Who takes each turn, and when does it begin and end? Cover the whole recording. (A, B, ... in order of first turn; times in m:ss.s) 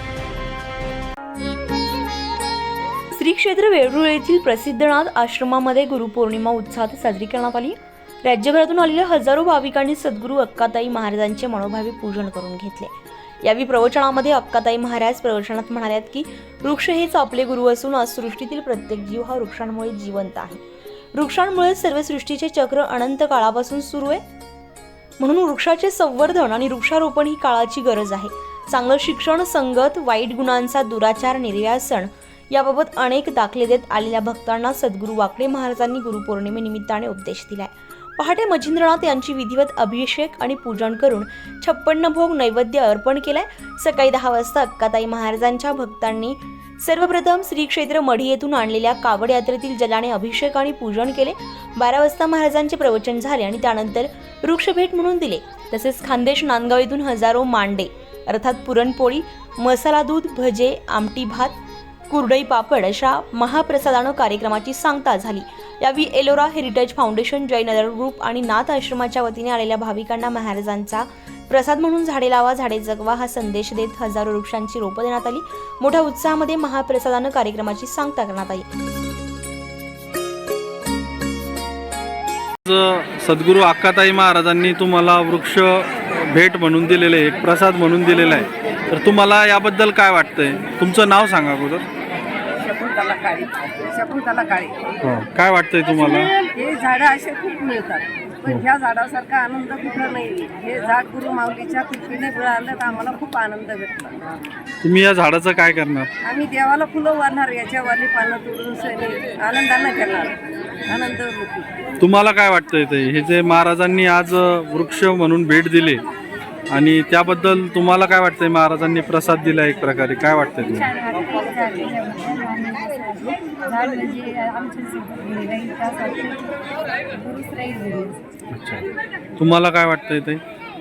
0:03.1-0:20.6 A
0:21.2-0:24.2 A
0:25.2-1:01.6 A
1:02.1-1:18.7 A
1:22.6-1:31.9 B
1:32.6-1:34.8 C
1:35.0-1:36.3 B
1:36.0-1:44.3 C
1:44.8-1:46.1 B
1:46.2-1:51.7 C
1:52.0-1:56.0 B
1:56.7-2:00.9 B
2:00.6-2:08.2 D
2:08.5-2:08.9 B
2:09.4-2:10.4 B